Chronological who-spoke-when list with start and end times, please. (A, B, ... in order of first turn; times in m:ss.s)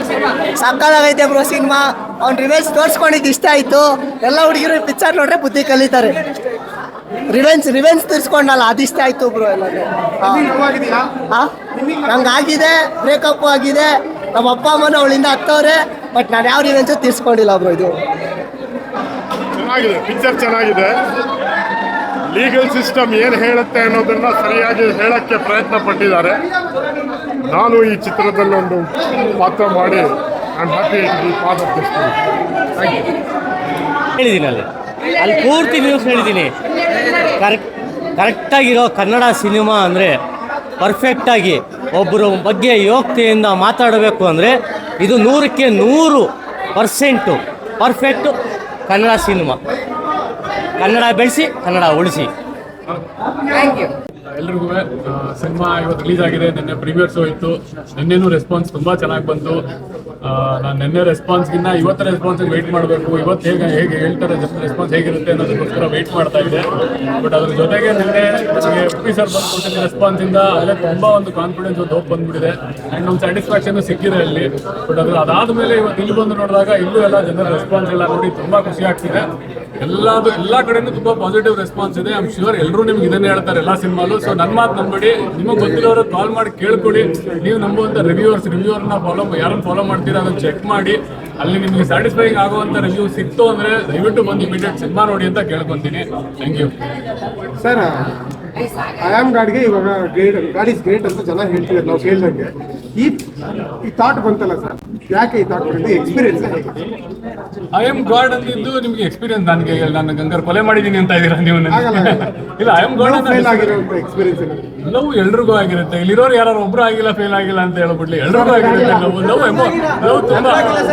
0:00.6-0:06.2 A
0:07.3-0:10.5 A
0:10.3-0:11.2 B
0:11.8-0:12.3 B
0:12.0-0:18.0 A
0:19.6-0:20.9 C
0:22.3-0:26.4 C
0:27.5-0:32.2 C
0:34.2-0:34.7 D
0:35.2-0:36.5 D
0:37.4-0:40.2 D
0:40.8-0:48.3 D
0:48.9-0:49.6 D
0:50.8-0:52.3 D
0:54.3-0:59.6 E
1:00.2-1:06.7 E
1:07.2-1:19.3 E
1:19.8-1:36.7 E
1:37.6-1:38.1 B
1:39.0-1:43.2 B
1:43.8-1:46.7 B
1:47.7-1:53.8 E
1:51.7-1:52.2 B
1:52.9-1:54.6 B
1:54.8-2:00.7 E